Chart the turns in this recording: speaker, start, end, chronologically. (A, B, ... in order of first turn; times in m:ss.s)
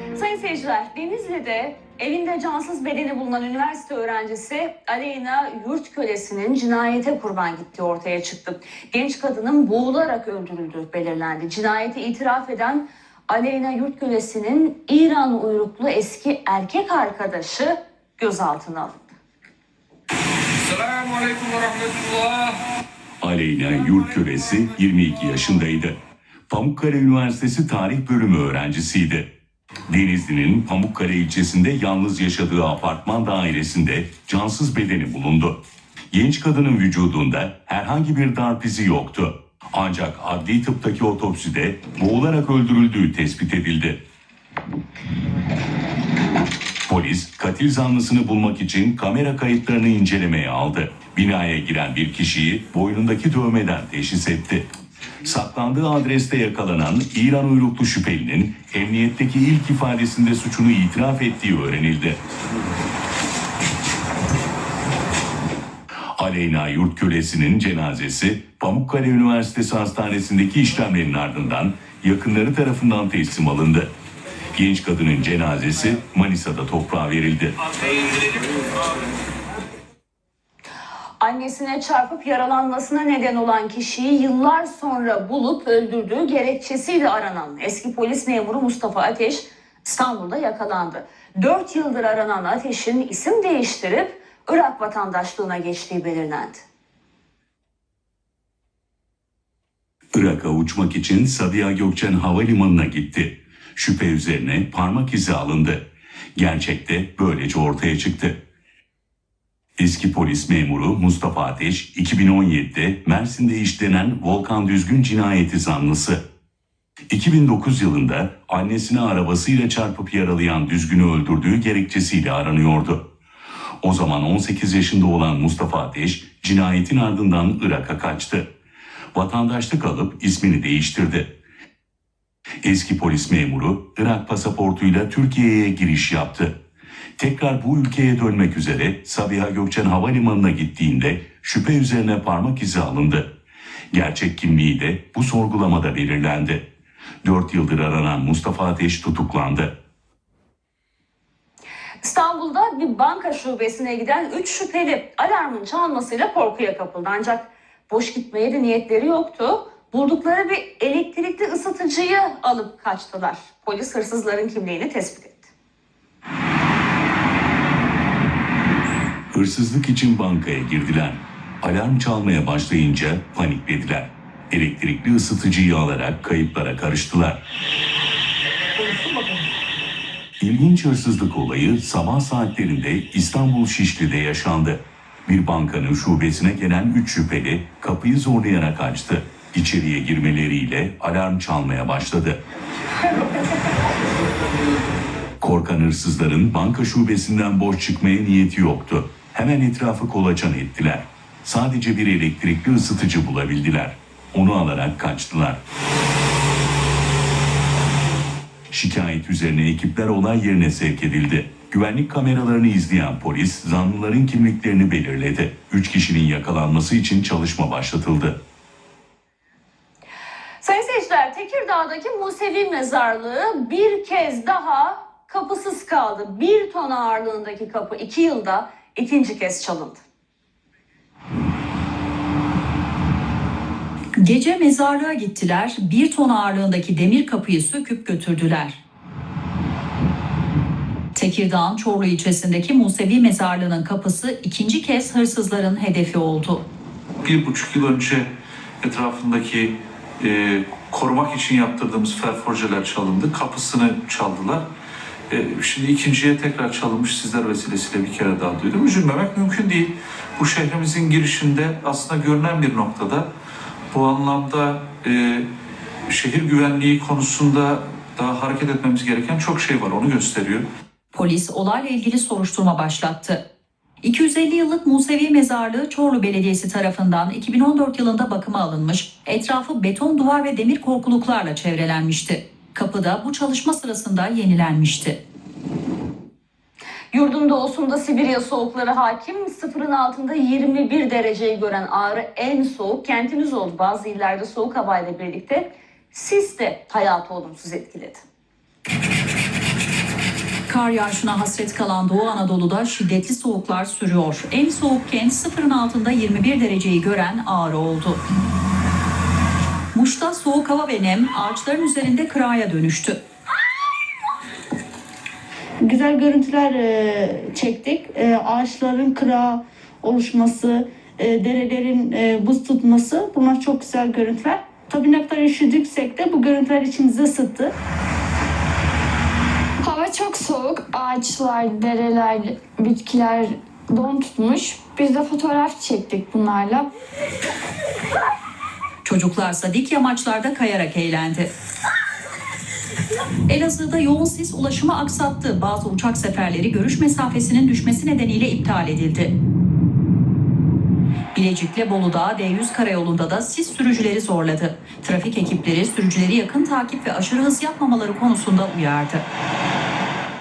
0:00.2-0:19.1 A
0:23.2-0:26.0 B
0:26.5-0:29.3 B
0:29.9-0:35.6 B
0:36.1-0:44.0 B
0:46.9-0:54.7 B
0:55.2-1:02.2 B
1:06.2-1:13.9 B
1:14.6-1:17.6 B
1:21.2-1:36.6 A
1:40.1-1:45.8 B
1:46.4-1:48.4 B
1:49.8-1:56.2 B
1:57.1-2:03.0 B
2:03.8-2:08.5 B
2:09.1-2:11.3 B
2:12.6-2:16.6 B
2:17.2-2:23.3 B
2:23.9-2:26.6 B
2:27.2-2:29.7 B
2:32.0-2:45.5 A
2:49.3-2:57.4 B
3:00.4-3:12.4 B
3:15.4-3:25.6 B
3:28.7-3:38.4 B
3:40.6-3:50.0 A
3:54.2-3:58.8 C
4:01.2-4:06.6 C
4:07.2-4:08.3 D
4:08.8-4:14.7 D
4:15.3-4:23.3 D
4:23.9-4:25.5 D
4:26.1-4:30.7 D
4:31.1-4:33.4 C
4:34.0-4:45.2 C
4:47.1-4:58.2 A
5:00.7-5:08.2 C
5:09.9-5:13.2 C
5:15.8-5:27.7 E
5:29.8-5:36.9 F
5:39.0-5:41.5 C
5:43.5-5:49.3 C
5:51.3-5:59.2 C